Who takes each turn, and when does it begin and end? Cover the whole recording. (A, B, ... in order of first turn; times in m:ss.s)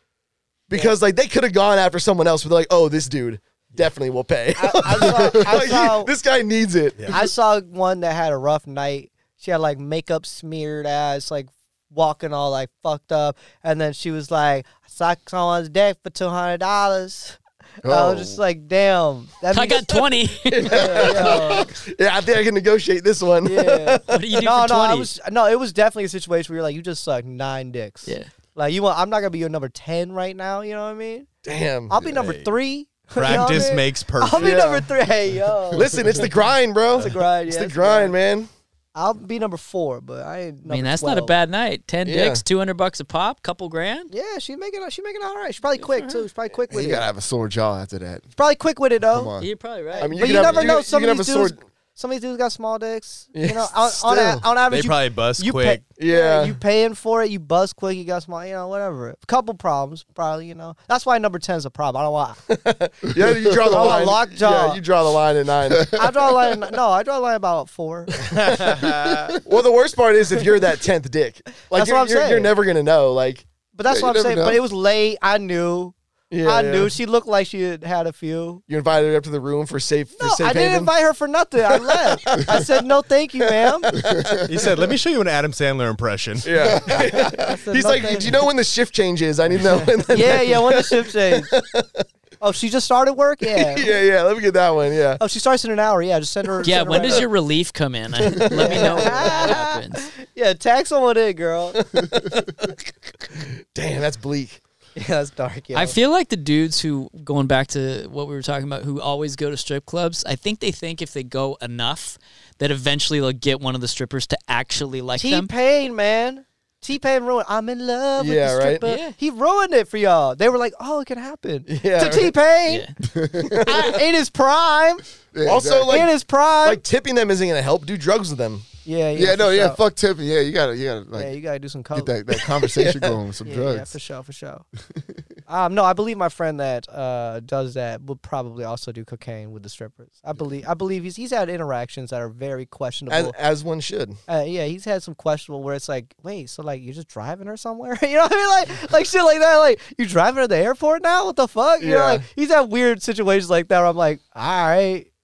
0:00.7-0:07.2 A
0:04.6-0:06.1 B
0:07.1-0:20.1 B
0:17.8-0:18.4 C
0:19.5-0:21.4 D
0:20.5-0:24.2 A
0:20.6-0:21.7 B
0:23.4-0:31.3 B
0:24.1-0:25.1 D
0:31.4-0:32.0 A
0:31.9-0:36.0 B
0:32.0-0:32.5 E
0:33.1-0:34.6 E
0:34.4-0:34.8 A
0:35.7-0:38.5 A
0:36.9-0:38.1 B
0:38.9-0:41.3 B
0:40.7-0:44.1 D
0:42.0-0:42.4 A
0:44.1-0:47.1 B
0:45.8-0:46.1 D
0:46.7-0:48.3 C
0:48.4-0:49.3 B
0:49.1-0:49.5 C
0:49.4-0:50.4 D
0:50.0-0:51.6 A
0:50.0-1:02.4 B
0:53.3-0:54.5 A
0:54.7-0:55.9 E
0:56.0-0:56.6 A
1:02.5-1:06.4 A
1:03.6-1:04.8 B
1:05.7-1:06.0 C
1:05.9-1:08.2 B
1:08.3-1:09.4 E
1:08.5-1:08.8 A
1:09.4-1:13.4 A
1:11.7-1:12.5 B
1:13.7-1:18.6 B
1:13.9-1:14.6 C
1:16.3-1:16.9 A
1:18.7-1:20.9 A
1:20.2-1:23.9 B
1:21.7-1:22.8 A
1:23.4-1:24.7 A
1:24.0-1:24.4 C
1:24.4-1:26.7 E
1:26.4-1:32.0 A
1:26.6-1:27.3 C
1:27.1-1:28.3 B
1:30.1-1:31.5 B
1:32.4-1:33.9 B
1:33.5-1:35.2 A
1:35.2-1:37.3 B
1:36.6-1:40.1 D
1:38.2-1:39.3 A
1:38.5-1:41.8 B
1:41.8-1:42.7 A
1:43.7-1:44.6 A
1:45.0-1:46.0 B
1:45.7-1:55.5 D
1:55.2-2:02.9 B
1:58.2-1:58.8 A
1:58.8-1:59.2 D
2:01.7-2:02.3 A
2:02.7-2:02.9 D
2:03.1-2:03.7 C
2:03.4-2:03.9 A
2:03.6-2:05.0 B
2:05.3-2:06.1 C
2:05.4-2:08.7 A
2:05.9-2:06.8 B
2:08.8-2:09.8 B
2:09.2-2:11.3 C
2:11.1-2:12.2 B
2:11.9-2:13.9 C
2:13.4-2:14.6 B
2:15.5-2:23.3 B
2:23.1-2:24.2 A
2:24.3-2:35.1 B
2:31.8-2:32.2 A